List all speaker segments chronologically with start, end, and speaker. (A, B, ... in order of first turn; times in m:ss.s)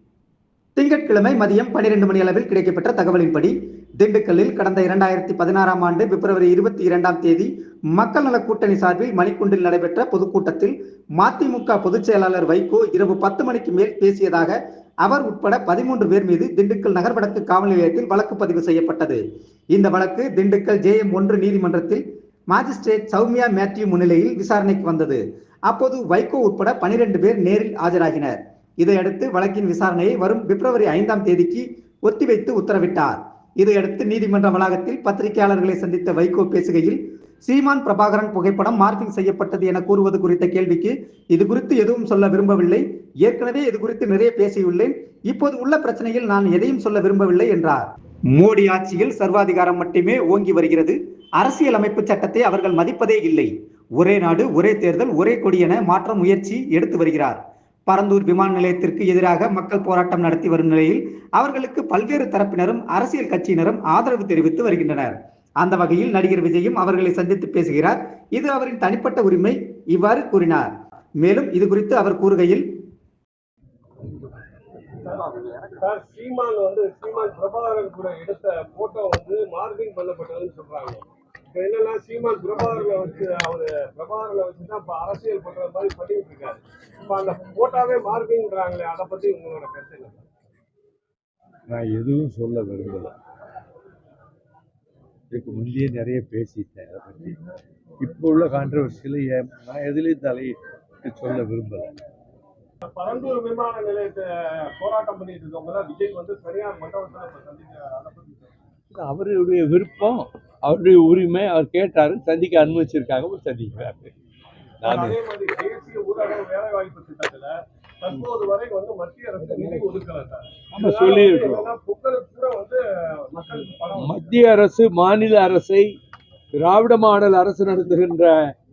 0:00.8-0:19.2 A
0:19.7-1:10.7 A
1:11.2-1:12.6 A
1:15.0-1:30.2 B
1:31.7-1:33.1 C
1:35.3-1:37.4 C
1:38.0-1:41.9 C
1:42.9-1:48.5 B
1:48.9-1:54.1 C
1:54.8-1:55.2 C
1:54.8-2:04.2 B
2:00.7-2:01.7 C
2:04.0-2:05.9 C
2:06.5-2:08.3 C